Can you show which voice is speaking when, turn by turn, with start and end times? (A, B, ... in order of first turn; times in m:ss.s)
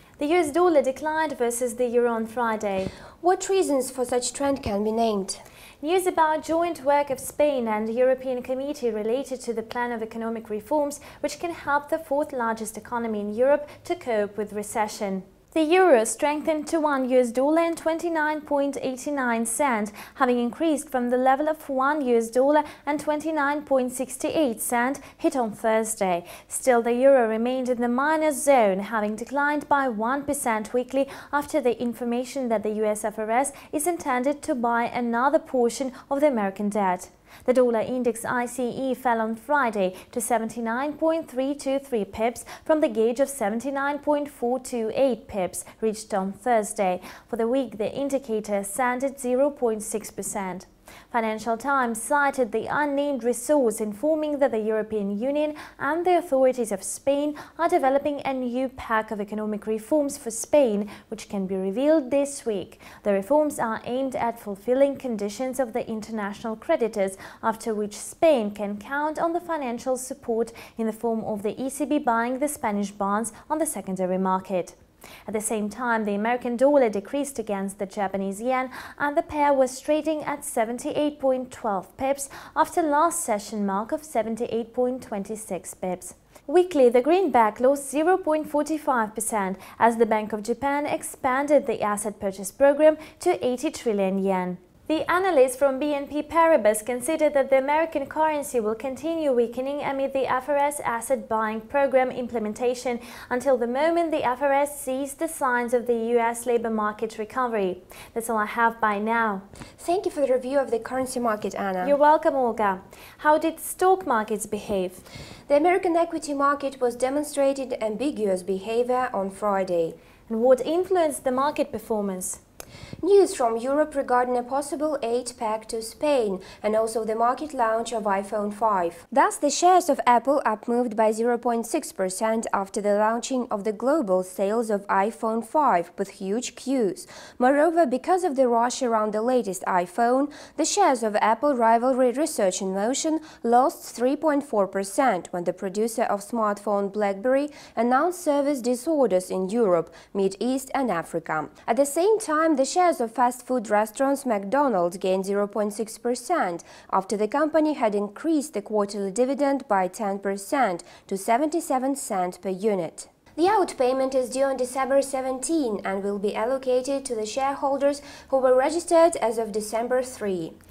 0:00.2-0:02.9 A
0:03.2-0:05.4 B
0:05.8-1:49.4 A
1:49.8-1:52.0 B
1:51.8-1:55.0 A
1:55.5-2:00.0 B
2:00.3-2:02.4 A
2:03.0-2:50.6 B